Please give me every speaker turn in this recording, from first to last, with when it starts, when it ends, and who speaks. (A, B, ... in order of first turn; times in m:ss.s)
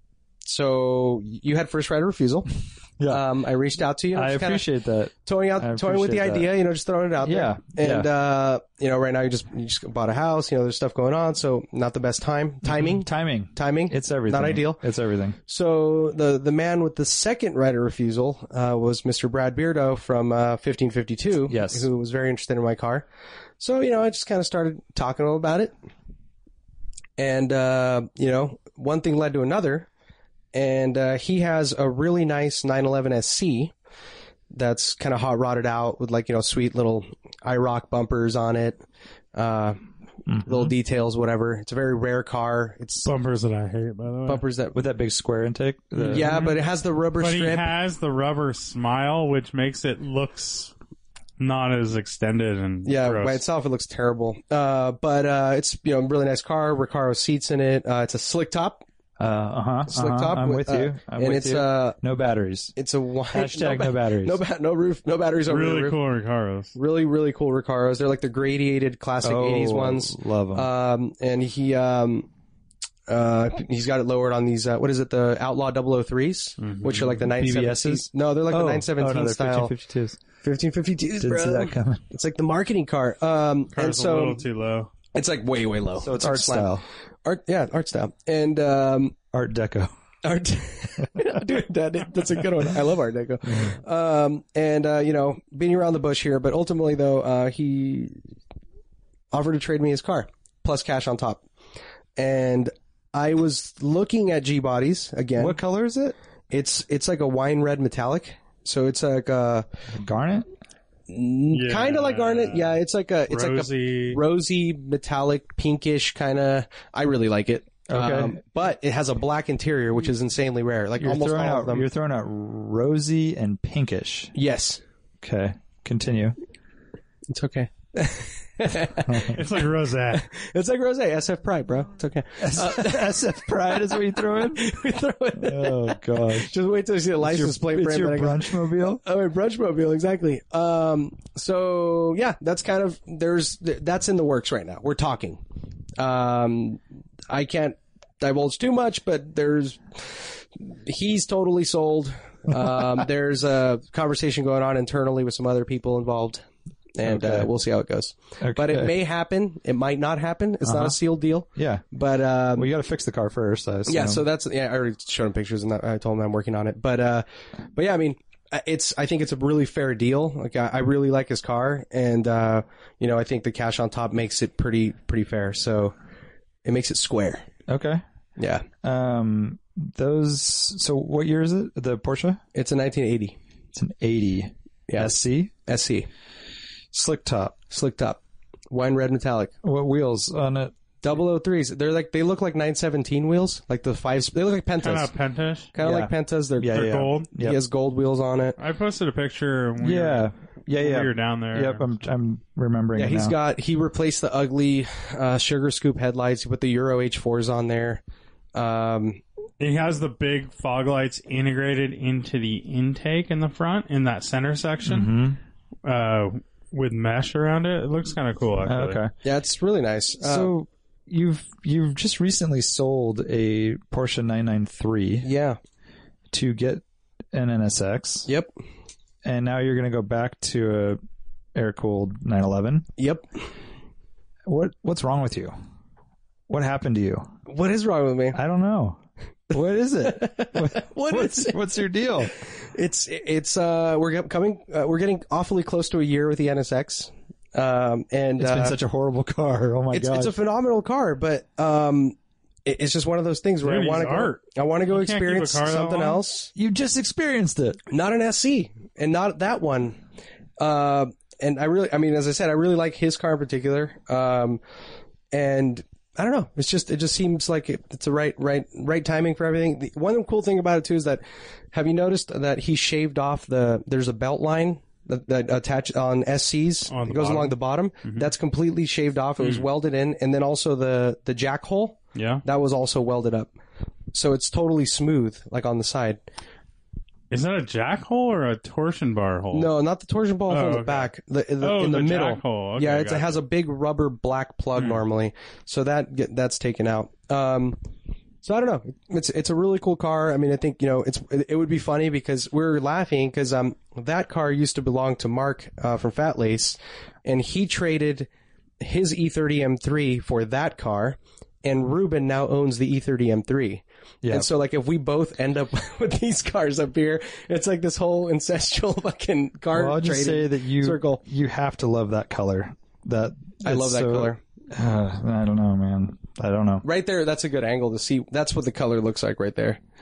0:00.4-0:02.5 A
0:03.0-0:03.2 B
0:03.1-0:04.7 A
0:04.1-0:06.5 B
0:05.2-0:14.8 A
0:07.2-0:08.1 B
0:12.7-0:15.4 B
0:15.4-0:23.0 A
0:21.5-0:21.9 B
0:23.6-0:25.7 A
0:27.2-0:29.9 A
0:30.5-0:33.7 A
0:34.5-0:38.8 A
0:39.3-0:39.8 A
0:40.3-0:40.7 B
0:40.4-0:43.1 A
0:43.0-0:44.4 C
0:44.3-0:44.8 A
0:44.7-0:46.4 B
0:46.0-0:47.7 A
0:46.1-0:46.6 C
0:47.2-0:50.7 C
0:51.4-0:53.4 C
0:52.8-0:58.8 A
0:59.2-1:02.7 B
0:59.9-1:02.0 A
1:02.8-1:06.0 A
1:03.3-1:04.4 B
1:05.5-1:06.7 C
1:06.7-1:12.3 A
1:09.2-1:10.7 B
1:13.1-1:19.7 A
1:16.6-1:17.2 C
1:17.3-1:20.2 B
1:20.4-1:24.4 A
1:21.2-1:22.0 B
1:23.7-1:24.9 C
1:25.1-1:29.2 A
1:26.0-1:26.8 B
1:29.3-1:29.9 B
1:30.2-1:38.2 A
1:39.3-1:41.4 A
1:42.2-1:45.6 A
1:45.4-1:46.2 B
1:46.5-1:49.6 A
1:49.9-1:50.5 B
1:51.1-2:01.9 A
1:51.5-1:52.8 C
1:53.3-1:54.2 C
1:57.9-1:58.4 B
2:01.0-2:04.3 B
2:04.3-2:04.8 A
2:05.2-2:06.4 B
2:07.3-2:09.4 A
2:09.0-2:09.4 B
2:09.2-2:10.3 C
2:10.1-2:25.4 A
2:12.4-2:14.7 B
2:15.4-2:16.5 B
2:17.2-2:19.0 B
2:26.0-2:36.4 A
2:37.0-2:42.7 A
2:37.0-2:37.5 B
2:38.4-2:38.9 B
2:40.6-2:41.0 B
2:41.5-2:41.8 B
2:42.5-2:44.2 B
2:43.9-2:55.9 A
2:56.6-2:57.4 A
2:57.7-2:58.0 B
2:58.4-2:58.6 A
2:58.8-3:02.4 B
3:02.5-3:03.4 A
3:03.7-3:05.5 B
3:04.9-3:05.1 A
3:05.6-3:06.1 A
3:06.9-3:07.6 B
3:07.6-3:09.5 A
3:09.6-3:10.7 B
3:11.0-3:15.1 A
3:14.8-3:15.7 C
3:15.7-3:18.6 A
3:15.8-3:17.6 B
3:16.7-3:17.3 C
3:18.6-3:21.8 C
3:19.8-3:23.4 B
3:23.0-3:28.0 A
3:28.5-3:29.2 A
3:29.6-3:35.1 C
3:34.8-3:35.4 B
3:35.8-3:39.0 C
3:38.6-3:39.1 B
3:39.2-3:40.5 A
3:40.2-3:45.3 B
3:45.2-3:45.6 A
3:46.3-3:48.3 B
3:49.2-3:51.0 B
3:51.5-3:52.9 B
3:53.0-3:53.2 A
3:54.4-3:55.5 B
3:56.5-3:57.3 B
3:57.5-3:58.4 A
3:58.3-3:59.0 B
3:59.5-4:02.3 B
4:00.0-4:01.6 A
4:02.5-4:08.8 A
4:08.4-4:10.3 B
4:09.9-4:16.5 A
4:13.6-4:16.2 C
4:16.5-4:17.8 B
4:17.9-4:20.0 A
4:20.6-4:24.6 A
4:25.3-4:43.5 A
4:36.9-4:38.3 C
4:39.4-4:39.6 C
4:42.1-4:42.4 C
4:44.1-4:46.2 A
4:47.3-4:49.7 C
4:49.5-4:57.8 A
4:50.5-4:53.4 C
4:58.4-5:08.3 A
5:08.8-5:21.2 A
5:14.2-5:14.5 B
5:19.7-5:26.8 B
5:23.6-5:24.4 A
5:26.8-5:29.8 A